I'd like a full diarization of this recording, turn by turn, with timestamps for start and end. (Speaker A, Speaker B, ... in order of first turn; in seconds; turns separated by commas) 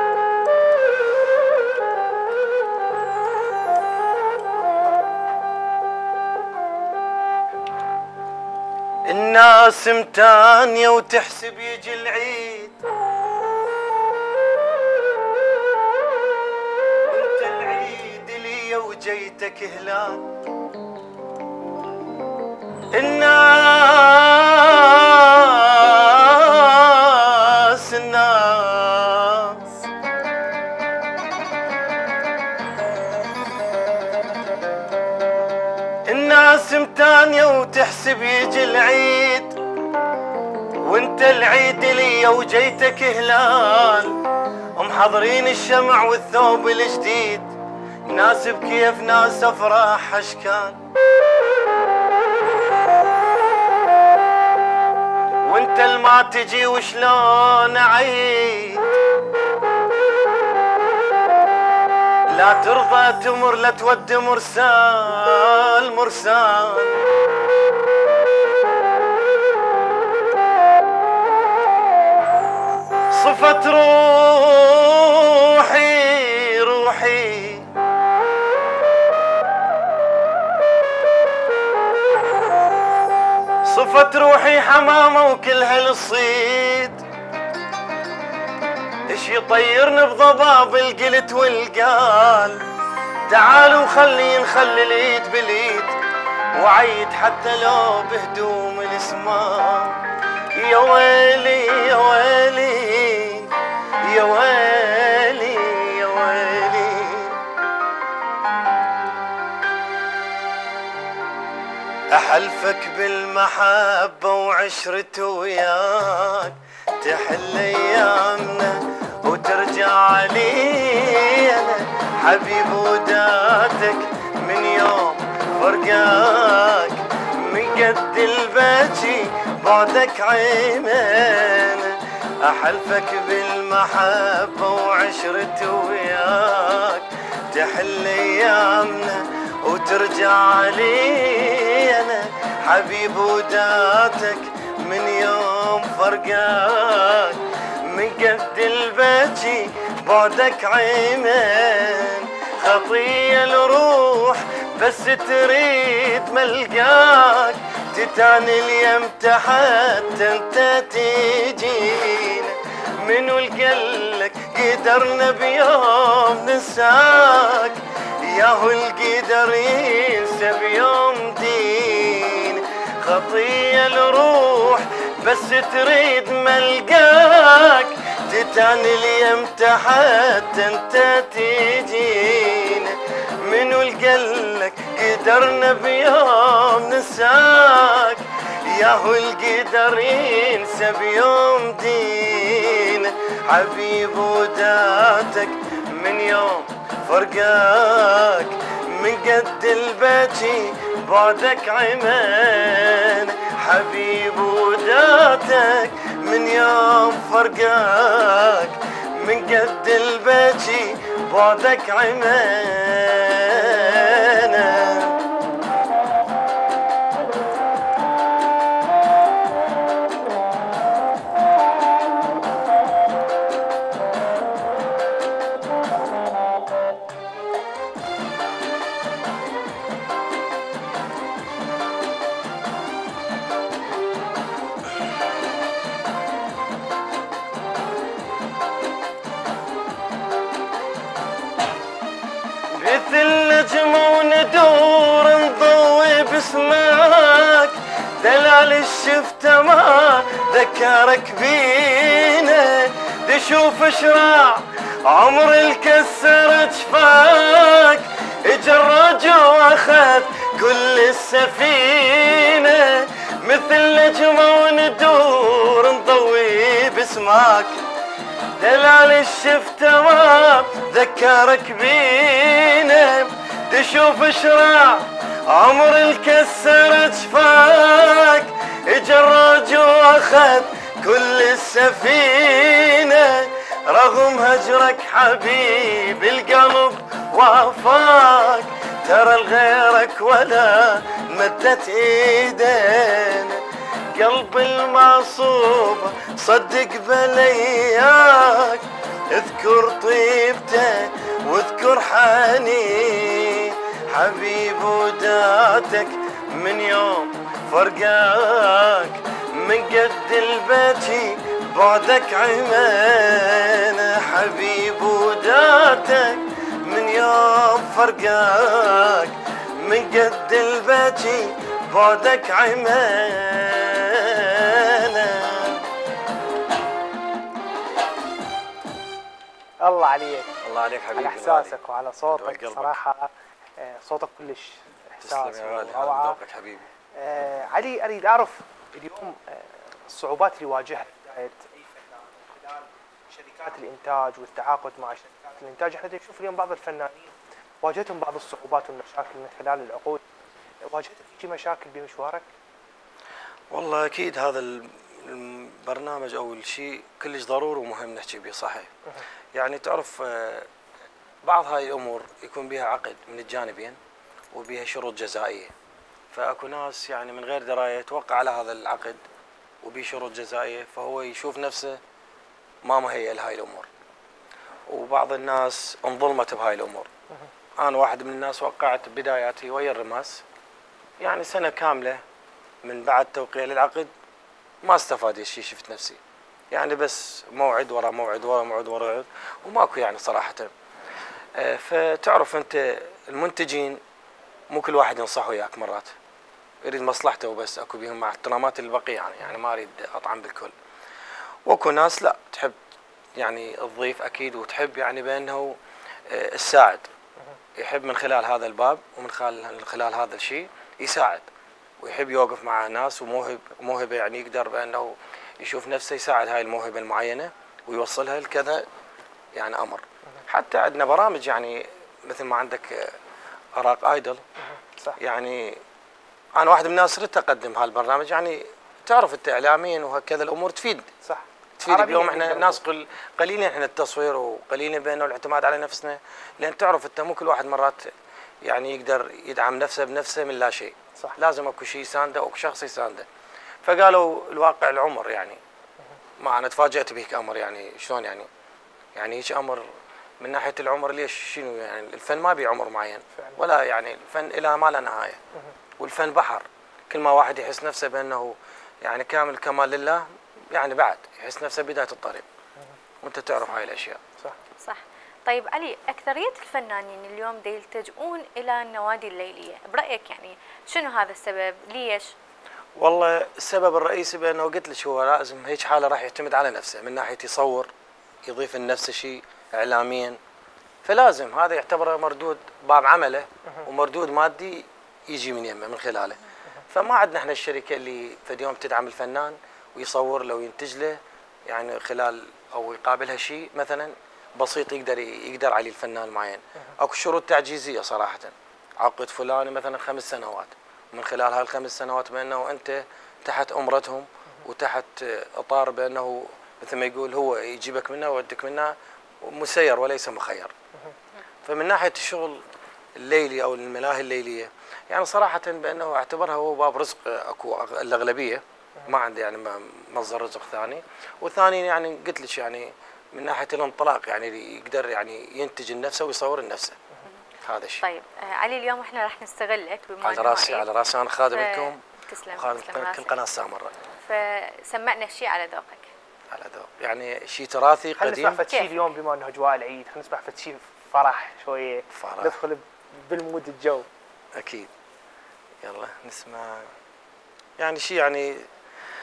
Speaker A: 9.1-12.8, Speaker A: 17.0-20.3, Speaker A: 22.9-29.7, Speaker A: 36.1-39.6, Speaker A: 40.8-44.2, Speaker A: 44.8-47.5, Speaker A: 48.0-50.8, Speaker A: 55.4-58.9, Speaker A: 62.3-67.0, Speaker A: 73.1-77.7, Speaker A: 83.7-87.0, Speaker A: 89.1-92.6, Speaker A: 93.3-96.0, Speaker A: 96.5-100.0, Speaker A: 100.5-103.5, Speaker A: 104.0-107.4, Speaker A: 112.1-215.2, Speaker A: 242.7-267.8, Speaker A: 268.6-293.6, Speaker A: 294.1-325.8, Speaker B: 329.8-330.5, Speaker A: 330.6-331.7, Speaker B: 331.1-336.4, Speaker A: 332.3-333.0, Speaker A: 335.2-336.9, Speaker B: 337.1-350.2, Speaker B: 350.9-352.5, Speaker A: 353.7-358.9, Speaker A: 359.5-360.7, Speaker A: 361.4-364.0, Speaker A: 364.5-365.7, Speaker A: 366.3-369.2, Speaker A: 369.8-372.0, Speaker A: 372.8-373.9, Speaker A: 374.9-377.1, Speaker A: 377.8-380.4, Speaker A: 381.2-382.2, Speaker A: 382.8-384.1, Speaker A: 384.8-386.2, Speaker A: 386.7-390.7, Speaker A: 391.6-394.0, Speaker A: 394.7-396.1, Speaker A: 396.8-400.7, Speaker A: 401.6-402.7, Speaker A: 403.4-405.8, Speaker A: 406.3-407.1, Speaker A: 407.8-418.9, Speaker A: 419.5-423.2, Speaker A: 423.8-424.4, Speaker A: 425.2-425.8, Speaker A: 426.6-431.1, Speaker B: 431.2-432.8, Speaker A: 431.8-438.1, Speaker A: 438.6-443.3, Speaker A: 443.8-445.6, Speaker A: 446.4-448.5, Speaker A: 449.1-449.8, Speaker A: 450.4-455.4, Speaker A: 456.0-462.4, Speaker A: 463.2-464.2, Speaker C: 464.8-472.3, Speaker A: 473.0-477.9, Speaker A: 478.4-480.4, Speaker A: 481.0-510.7, Speaker A: 511.6-512.6, Speaker A: 513.2-527.0, Speaker A: 527.6-528.0, Speaker C: 528.0-530.9, Speaker A: 530.2-532.0, Speaker C: 531.5-533.4, Speaker A: 532.5-533.9, Speaker C: 534.2-536.1, Speaker A: 536.5-538.6, Speaker B: 538.2-544.1, Speaker C: 538.7-539.0, Speaker A: 542.1-542.6, Speaker A: 544.5-544.9, Speaker A: 545.8-546.9, Speaker A: 547.8-548.7